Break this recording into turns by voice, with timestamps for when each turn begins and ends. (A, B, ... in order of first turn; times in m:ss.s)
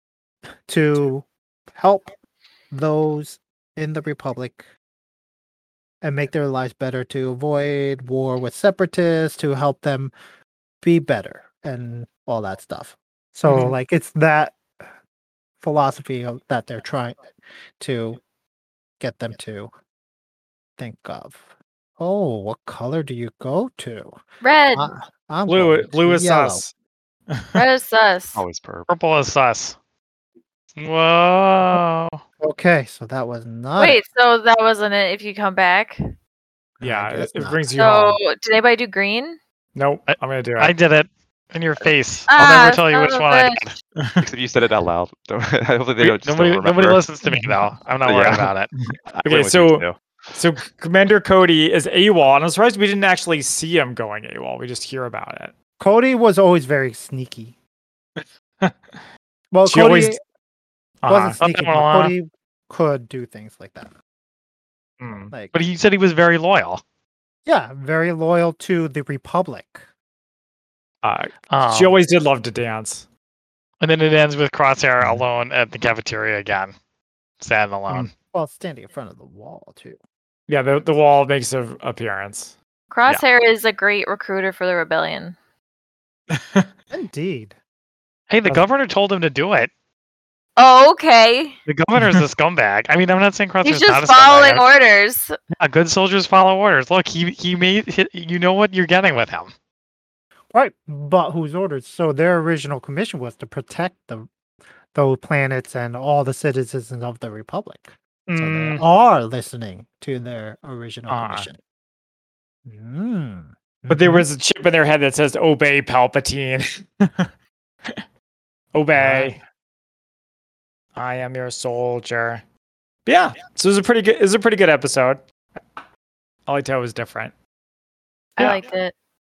0:00.7-0:02.1 A
0:02.7-0:04.6 A
0:06.0-0:10.1 A
0:10.8-0:14.6 A
0:13.4-0:13.7 B
0:15.6-0:17.2 A
0:17.8-0:18.2 A
0:19.0-0:19.7 A
0:20.8-0:21.5 A
0:22.0-0:24.2 A
0:24.4-0:24.9 C
0:24.7-0:26.6 A
0:25.4-0:26.7 B
0:27.3-0:27.6 B
0:27.5-0:28.4 C
0:28.3-0:28.9 D
0:28.9-0:29.7 E
0:30.8-0:32.2 E
0:32.4-0:34.0 A
0:33.8-0:36.0 C
0:36.8-0:37.6 A
0:36.8-0:38.2 B
0:37.8-0:39.4 C
0:39.7-0:40.7 B
0:40.1-0:43.7 E
0:42.3-0:43.6 C
0:44.2-0:47.0 D
0:46.0-0:48.7 E
0:47.2-0:47.7 B
0:48.0-0:48.5 D
0:48.9-0:55.5 B
0:49.1-0:50.0 D
0:55.8-0:57.5 A
0:59.5-1:00.2 A
0:59.6-1:00.2 B
1:01.0-1:01.4 B
1:01.1-1:03.9 A
1:01.4-1:02.1 E
1:05.0-1:05.3 B
1:05.5-1:06.8 E
1:07.4-1:09.8 A
1:11.0-1:13.0 B
1:11.5-1:12.0 E
1:13.8-1:16.7 E
1:17.4-1:18.1 E
1:18.3-1:20.0 A
1:20.5-1:22.5 B
1:22.9-1:25.3 C
1:26.3-1:26.7 B
1:26.9-1:27.5 A
1:28.3-1:29.7 E
1:30.6-1:31.6 C
1:31.6-1:34.6 E
1:32.0-1:32.2 B
1:33.6-1:35.3 C
1:35.5-1:39.5 E
1:40.5-1:44.3 A
1:44.9-1:51.6 A
1:48.3-1:48.8 E
1:51.1-1:51.5 B
1:52.6-1:54.2 A
1:53.9-1:57.3 B
1:58.7-1:59.4 B
1:59.0-1:59.4 A
2:00.9-2:02.4 B
2:03.0-2:05.6 B
2:06.5-2:07.3 B
2:08.4-2:08.6 A
2:08.4-2:08.9 C